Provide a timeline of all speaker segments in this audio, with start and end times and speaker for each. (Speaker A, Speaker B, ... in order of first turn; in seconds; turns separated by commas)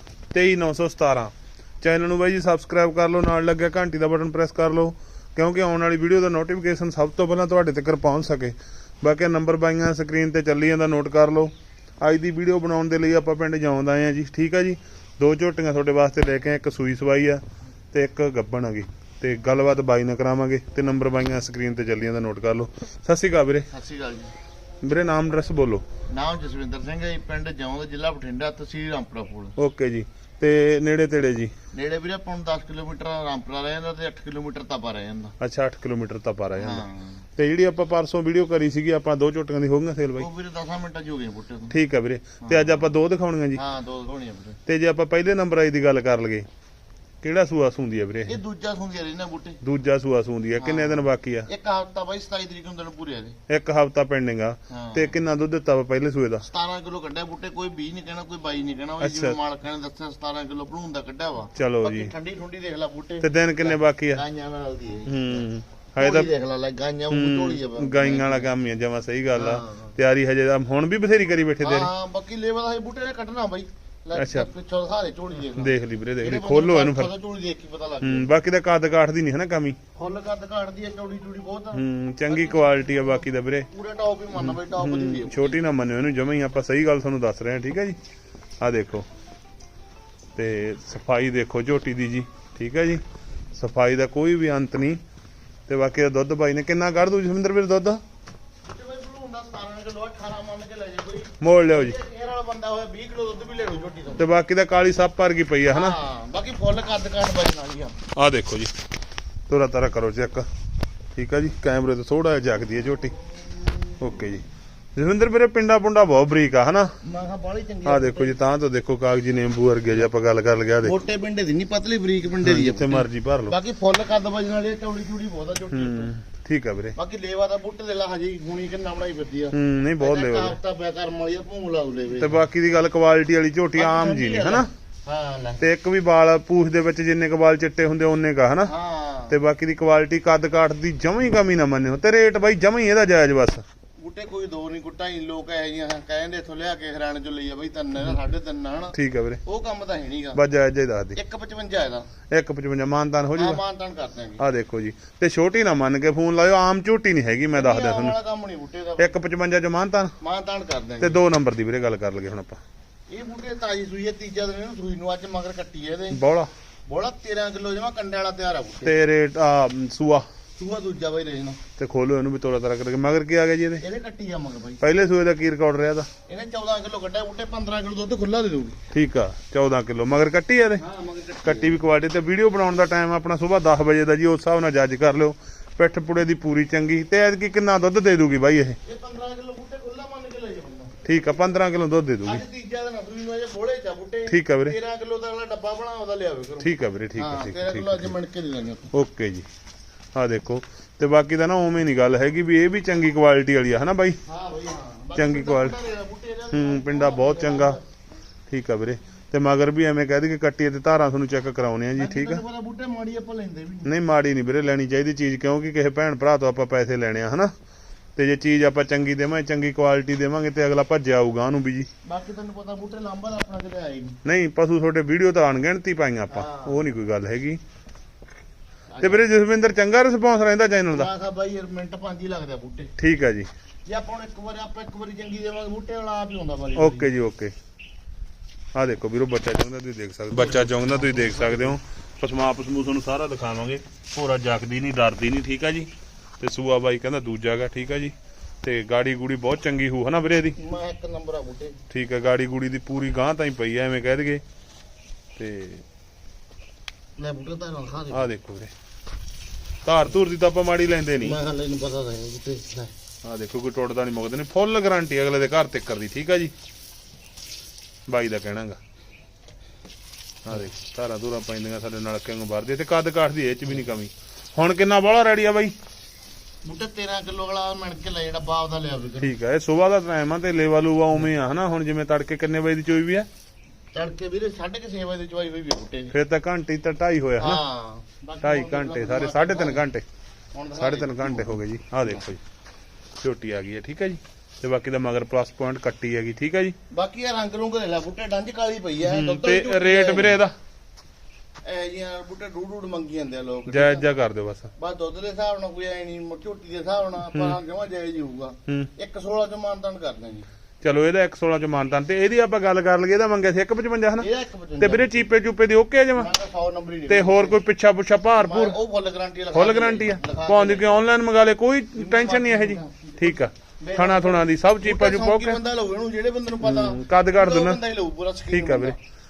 Speaker A: 0.3-23.7, Speaker B: 23.7-24.3, Speaker A: 24.8-25.9, Speaker B: 26.1-29.5, Speaker A: 29.6-31.5, Speaker B: 31.7-35.3, Speaker A: 35.4-36.8, Speaker B: 36.5-37.2, Speaker A: 37.4-40.3, Speaker B: 40.1-41.7, Speaker A: 41.7-43.6, Speaker B: 42.4-42.8, Speaker B: 43.5-44.6, Speaker A: 44.6-46.4, Speaker A: 47.2-48.4, Speaker B: 48.3-49.6, Speaker A: 49.6-51.5, Speaker B: 50.6-53.4, Speaker A: 53.5-56.5, Speaker B: 54.7-55.1, Speaker B: 56.5-65.4, Speaker A: 59.0-59.4, Speaker A: 61.5-62.1, Speaker A: 63.2-64.2, Speaker A: 65.1-66.3, Speaker B: 66.0-68.5, Speaker A: 67.1-71.9, Speaker B: 69.3-69.9, Speaker B: 71.6-78.3, Speaker A: 74.1-74.5, Speaker A: 75.5-77.1, Speaker A: 78.0-79.8, Speaker B: 80.0-85.6, Speaker A: 81.7-83.7, Speaker A: 84.3-88.0, Speaker A: 88.6-89.1, Speaker A: 90.3-93.0, Speaker A: 93.5-95.0, Speaker A: 95.7-98.0, Speaker B: 98.6-104.3, Speaker A: 101.4-102.0, Speaker A: 104.2-106.0, Speaker B: 105.7-108.0, Speaker A: 108.1-108.7, Speaker A: 109.5-110.5, Speaker A: 111.1-113.1, Speaker A: 114.0-114.4, Speaker A: 115.0-116.9, Speaker B: 117.0-118.4, Speaker A: 117.8-121.0, Speaker B: 120.8-126.1, Speaker A: 122.4-123.5, Speaker A: 125.7-127.0, Speaker B: 127.0-132.4, Speaker A: 129.5-130.6, Speaker A: 132.1-134.7, Speaker B: 133.8-135.6, Speaker A: 135.6-138.7, Speaker B: 138.6-139.3, Speaker A: 139.3-143.6, Speaker B: 144.0-150.4, Speaker A: 148.9-149.4, Speaker A: 150.3-151.2, Speaker B: 151.1-152.1, Speaker A: 152.3-153.6, Speaker B: 153.3-154.4, Speaker A: 154.4-158.1, Speaker B: 157.5-159.1, Speaker A: 159.0-160.1, Speaker B: 160.2-161.2, Speaker A: 161.0-162.6, Speaker B: 163.1-166.2, Speaker A: 166.1-166.5, Speaker B: 166.9-169.0, Speaker A: 168.8-170.3, Speaker B: 170.6-171.6, Speaker A: 171.8-173.8, Speaker B: 173.8-174.8, Speaker A: 174.8-176.1, Speaker B: 176.3-178.8, Speaker A: 178.9-180.8, Speaker B: 180.8-181.8, Speaker A: 181.4-188.8, Speaker B: 188.8-191.0, Speaker A: 191.0-192.4, Speaker B: 192.2-198.9, Speaker A: 194.3-194.8, Speaker A: 196.6-198.1, Speaker A: 198.9-199.4, Speaker A: 200.1-204.2, Speaker B: 204.2-207.8, Speaker A: 205.2-205.7, Speaker A: 206.5-207.8, Speaker A: 208.5-212.4, Speaker B: 211.9-214.0, Speaker A: 213.8-217.5, Speaker A: 218.2-221.9, Speaker B: 222.0-224.2, Speaker A: 224.2-227.6, Speaker B: 226.3-226.8, Speaker B: 228.9-229.2, Speaker A: 229.0-231.1, Speaker B: 230.9-232.9, Speaker A: 233.0-233.5, Speaker B: 233.9-237.1, Speaker A: 236.8-237.5, Speaker A: 238.7-245.9, Speaker B: 240.3-241.8, Speaker A: 246.4-250.6, Speaker B: 250.6-251.8, Speaker A: 251.9-254.4, Speaker A: 255.4-255.8, Speaker B: 257.2-258.3, Speaker A: 258.1-258.7, Speaker A: 259.8-261.4, Speaker B: 261.2-262.9, Speaker A: 263.2-266.5, Speaker A: 268.1-268.8, Speaker A: 270.4-275.7, Speaker B: 276.6-279.3, Speaker A: 279.2-283.3, Speaker B: 283.9-286.1, Speaker A: 286.1-287.6, Speaker B: 287.4-289.9, Speaker A: 288.4-290.0, Speaker B: 290.5-292.1, Speaker A: 290.8-292.4, Speaker A: 293.2-296.8, Speaker B: 296.9-300.4, Speaker A: 299.1-300.5, Speaker B: 301.6-304.0, Speaker A: 303.7-304.7, Speaker B: 304.8-310.4, Speaker A: 307.3-307.6, Speaker A: 310.8-314.3, Speaker B: 314.2-315.3, Speaker A: 314.8-316.3, Speaker B: 316.1-317.6, Speaker A: 317.1-318.7, Speaker B: 318.4-321.1, Speaker A: 319.5-325.6, Speaker B: 321.9-329.0, Speaker A: 326.6-327.8, Speaker A: 328.5-328.9